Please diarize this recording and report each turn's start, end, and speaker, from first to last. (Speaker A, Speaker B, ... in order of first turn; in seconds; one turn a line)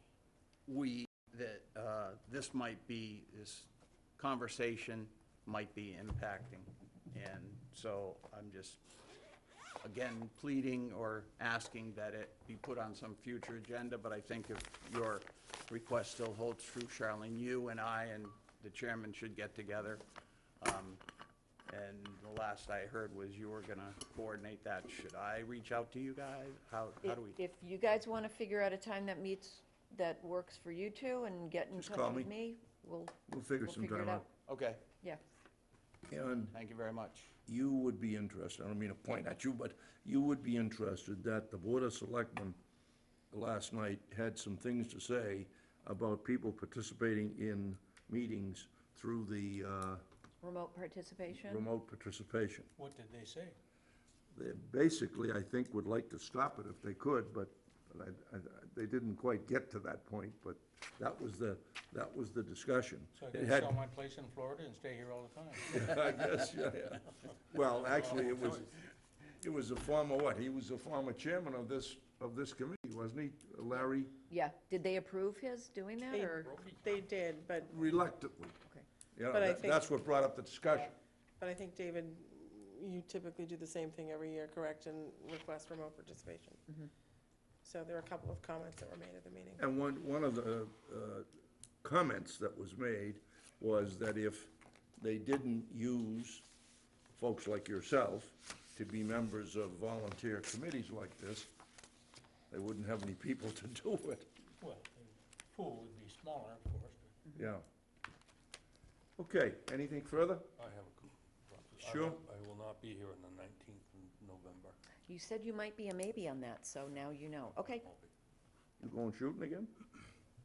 Speaker A: 0.7-8.8
Speaker A: 9.8-20.0
Speaker A: 20.6-21.0
Speaker A: 21.7-27.4
Speaker B: 27.0-34.3
Speaker C: 31.8-32.3
Speaker C: 33.3-34.3
Speaker A: 34.5-34.8
Speaker C: 36.1-36.6
Speaker A: 36.5-37.3
Speaker C: 37.5-42.6
Speaker C: 43.3-50.0
Speaker B: 50.4-51.6
Speaker C: 51.3-52.7
Speaker D: 52.8-53.6
Speaker C: 54.3-63.8
Speaker D: 63.1-66.0
Speaker C: 65.7-68.7
Speaker D: 67.9-68.6
Speaker C: 69.4-74.2
Speaker B: 74.3-76.5
Speaker E: 76.1-77.8
Speaker D: 76.4-77.0
Speaker C: 77.7-78.6
Speaker C: 79.1-80.9
Speaker E: 79.3-79.8
Speaker E: 81.4-86.8
Speaker E: 87.6-89.6
Speaker C: 89.6-91.2
Speaker C: 91.8-96.5
Speaker C: 97.1-101.5
Speaker C: 102.5-104.3
Speaker D: 104.6-107.2
Speaker C: 107.3-107.6
Speaker C: 109.2-110.5
Speaker F: 110.6-114.8
Speaker C: 111.8-112.2
Speaker B: 115.1-117.9
Speaker C: 118.8-119.7